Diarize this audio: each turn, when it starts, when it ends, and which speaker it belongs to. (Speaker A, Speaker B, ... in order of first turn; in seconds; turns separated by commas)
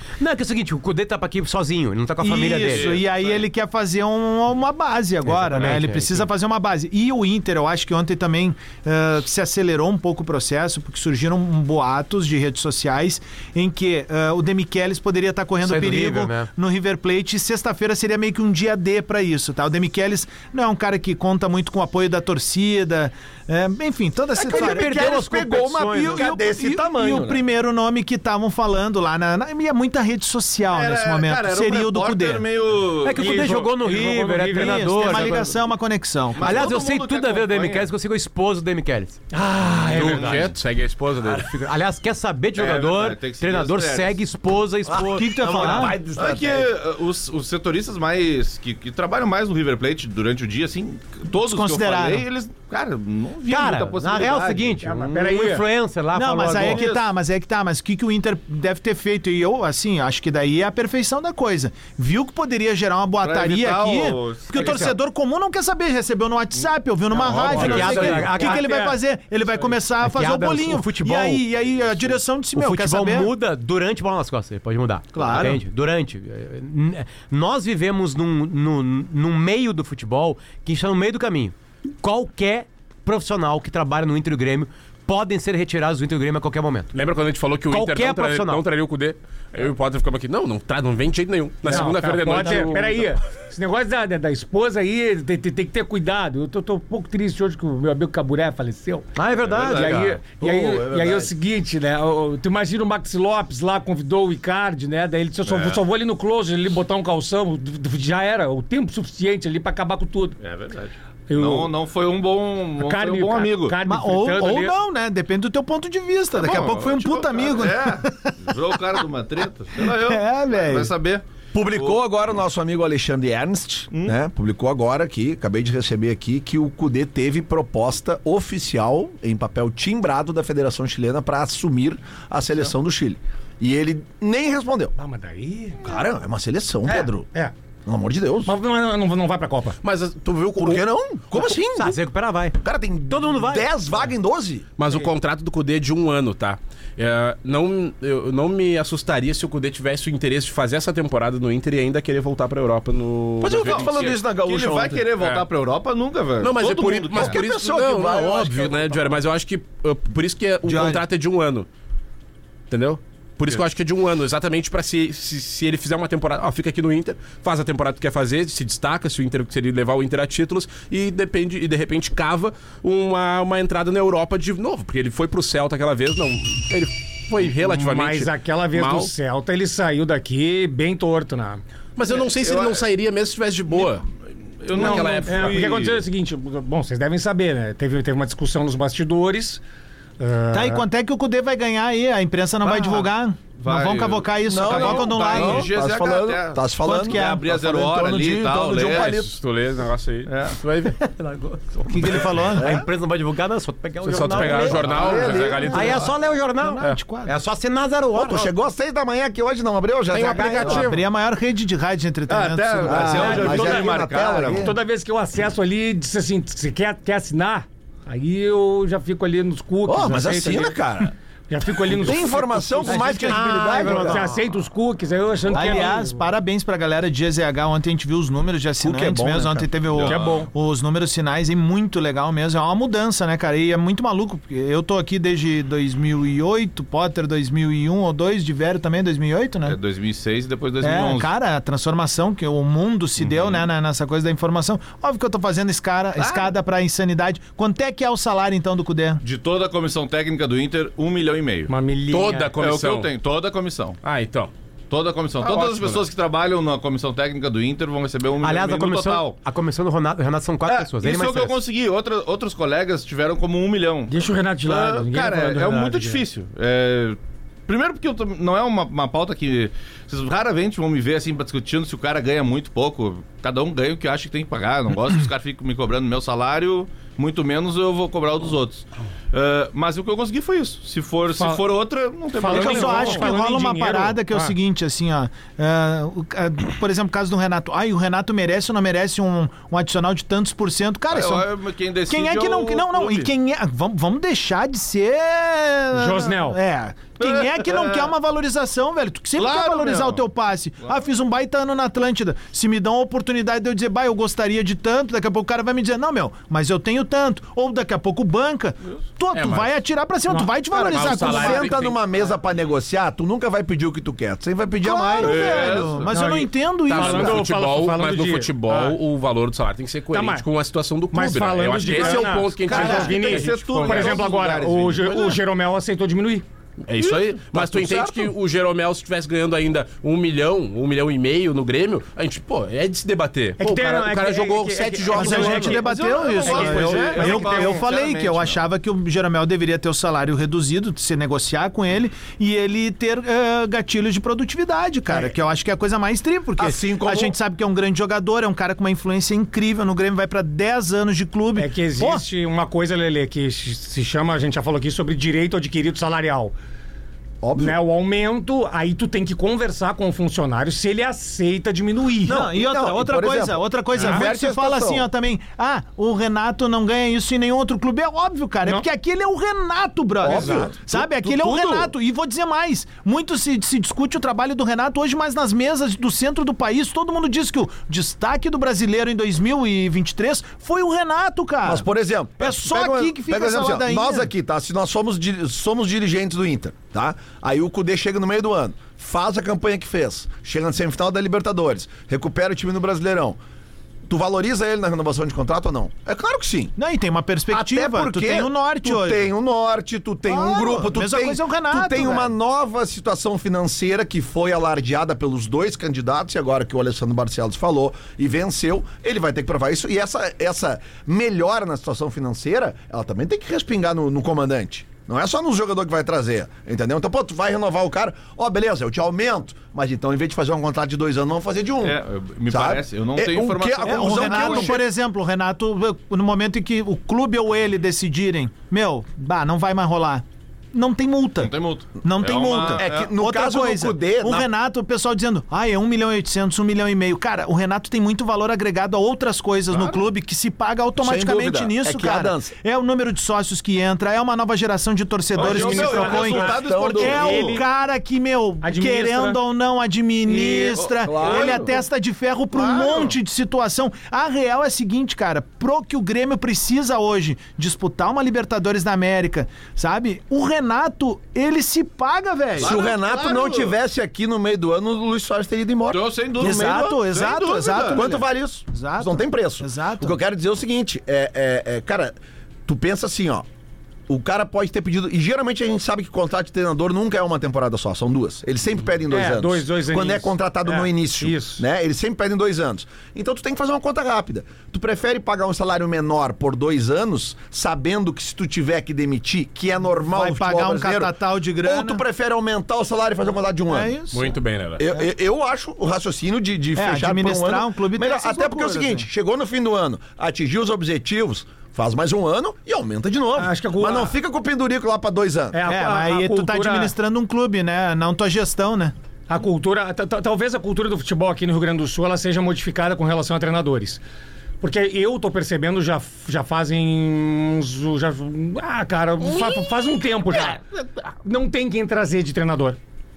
Speaker A: 0.2-3.0, Speaker B: 2.2-25.1, Speaker C: 2.7-3.4, Speaker A: 5.2-6.2, Speaker A: 15.6-16.5, Speaker D: 24.4-27.4, Speaker A: 24.4-26.3, Speaker B: 25.9-32.5, Speaker C: 30.7-33.4, Speaker A: 33.0-35.5, Speaker E: 33.1-35.5, Speaker B: 34.6-36.7, Speaker C: 36.3-37.9, Speaker A: 36.4-39.2, Speaker E: 39.3-40.5, Speaker F: 39.9-41.5, Speaker A: 41.3-45.9, Speaker C: 42.5-44.2, Speaker D: 44.9-46.7, Speaker B: 45.1-46.0, Speaker C: 46.1-54.8, Speaker B: 51.3-52.2, Speaker A: 53.5-56.8, Speaker E: 54.8-55.6, Speaker B: 56.1-73.3, Speaker C: 56.6-57.1, Speaker C: 63.2-64.9, Speaker A: 64.5-64.9, Speaker C: 67.1-68.2, Speaker E: 67.3-69.0, Speaker F: 67.5-68.0, Speaker A: 67.5-68.7, Speaker A: 70.0-71.4, Speaker A: 72.5-86.9, Speaker B: 75.1-75.6, Speaker F: 86.9-93.1, Speaker A: 87.7-88.6, Speaker E: 91.6-99.1, Speaker A: 92.3-92.7, Speaker A: 99.1-100.2, Speaker C: 99.4-100.2, Speaker E: 99.7-110.4, Speaker D: 100.4-101.2, Speaker C: 105.4-105.8, Speaker C: 110.4-113.8, Speaker E: 111.3-111.7, Speaker E: 112.8-114.7, Speaker B: 113.8-119.0, Speaker A: 114.2-114.7, Speaker C: 116.3-122.0, Speaker B: 119.8-120.9, Speaker D: 121.5-134.9, Speaker E: 135.0-135.9, Speaker D: 135.8-137.3, Speaker E: 136.8-137.5, Speaker D: 137.8-138.5, Speaker E: 138.4-139.8, Speaker F: 139.8-140.8, Speaker D: 140.6-142.0, Speaker A: 141.6-142.6, Speaker D: 142.6-144.7, Speaker A: 143.1-143.7, Speaker F: 144.8-153.9, Speaker D: 153.4-155.1, Speaker C: 153.6-157.4, Speaker F: 155.2-155.4, Speaker F: 156.4-161.7, Speaker D: 156.7-159.2, Speaker B: 160.6-161.0, Speaker F: 162.7-179.1, Speaker E: 177.6-181.6, Speaker F: 181.9-184.0, Speaker C: 182.1-182.8, Speaker C: 183.7-184.0, Speaker C: 184.6-186.0, Speaker F: 184.7-185.7, Speaker E: 184.7-189.6, Speaker E: 190.2-190.8, Speaker B: 190.5-195.7, Speaker C: 193.6-199.2, Speaker D: 194.4-199.3, Speaker B: 196.8-197.4, Speaker F: 199.0-201.0, Speaker C: 200.3-200.6, Speaker A: 200.9-208.5, Speaker B: 201.9-202.7, Speaker D: 202.5-202.9, Speaker F: 204.0-206.1, Speaker D: 204.4-206.0, Speaker B: 206.6-207.3, Speaker D: 208.1-210.9, Speaker F: 210.1-211.0, Speaker B: 210.2-213.8, Speaker C: 212.3-214.7, Speaker D: 212.8-214.8, Speaker E: 213.2-213.8, Speaker E: 214.5-220.8, Speaker D: 219.8-221.1, Speaker E: 221.5-226.2, Speaker D: 221.9-224.2, Speaker A: 222.9-224.3, Speaker B: 222.9-223.5, Speaker B: 225.5-239.8, Speaker D: 228.8-229.7, Speaker C: 229.9-230.4, Speaker E: 230.1-230.5, Speaker C: 239.6-241.3, Speaker B: 240.8-249.2, Speaker C: 243.2-243.7, Speaker C: 246.2-246.5, Speaker C: 249.2-251.7, Speaker E: 251.7-252.6, Speaker F: 252.1-253.1, Speaker C: 252.6-254.0, Speaker F: 254.0-254.5, Speaker C: 254.9-259.4, Speaker F: 255.4-256.0, Speaker A: 258.4-261.6, Speaker C: 260.6-283.3, Speaker E: 264.1-266.2, Speaker E: 281.3-281.8, Speaker E: 282.3-284.5, Speaker B: 282.4-291.5, Speaker C: 291.1-293.3, Speaker B: 292.1-311.7, Speaker E: 295.9-296.6, Speaker C: 297.2-298.1, Speaker C: 299.4-300.2, Speaker F: 309.3-309.8, Speaker E: 310.3-311.4, Speaker F: 310.7-312.0, Speaker D: 311.0-315.9, Speaker B: 314.8-317.4, Speaker C: 315.2-316.1, Speaker E: 316.1-319.0, Speaker F: 316.9-324.2, Speaker E: 320.1-320.5, Speaker E: 321.1-326.4, Speaker C: 322.0-325.1, Speaker D: 322.7-323.1, Speaker F: 325.1-325.4, Speaker F: 326.9-335.9, Speaker D: 327.0-328.3, Speaker E: 333.6-337.8, Speaker B: 335.1-352.2, Speaker C: 335.6-338.6, Speaker D: 346.6-347.3, Speaker E: 351.6-356.5, Speaker D: 357.4-357.8, Speaker E: 357.5-362.4, Speaker D: 362.2-365.1, Speaker B: 362.3-381.9, Speaker D: 370.2-371.9, Speaker E: 370.2-370.7, Speaker D: 381.6-393.4, Speaker B: 382.4-384.3, Speaker D: 394.1-396.7, Speaker B: 396.8-399.2, Speaker D: 397.5-424.8, Speaker B: 400.3-402.3, Speaker C: 421.8-424.8, Speaker B: 423.8-462.8, Speaker C: 431.4-433.1, Speaker D: 432.6-434.5, Speaker C: 439.7-440.0, Speaker D: 441.0-442.5, Speaker C: 445.3-447.6, Speaker E: 445.4-447.6, Speaker D: 445.5-447.5, Speaker E: 448.6-449.4, Speaker E: 450.2-451.6, Speaker D: 450.8-451.7, Speaker C: 451.2-451.7, Speaker C: 452.5-453.1, Speaker C: 462.5-463.7, Speaker D: 462.6-466.6, Speaker C: 465.9-468.0, Speaker B: 466.4-470.2, Speaker D: 467.9-473.4, Speaker D: 474.1-493.9, Speaker E: 479.1-481.6, Speaker B: 490.1-492.0, Speaker B: 493.7-494.3, Speaker F: 494.1-494.8, Speaker D: 494.8-505.6, Speaker B: 496.8-499.1, Speaker E: 503.4-504.1, Speaker E: 505.5-506.9, Speaker B: 505.6-508.9, Speaker E: 509.3-514.0, Speaker E: 514.6-522.8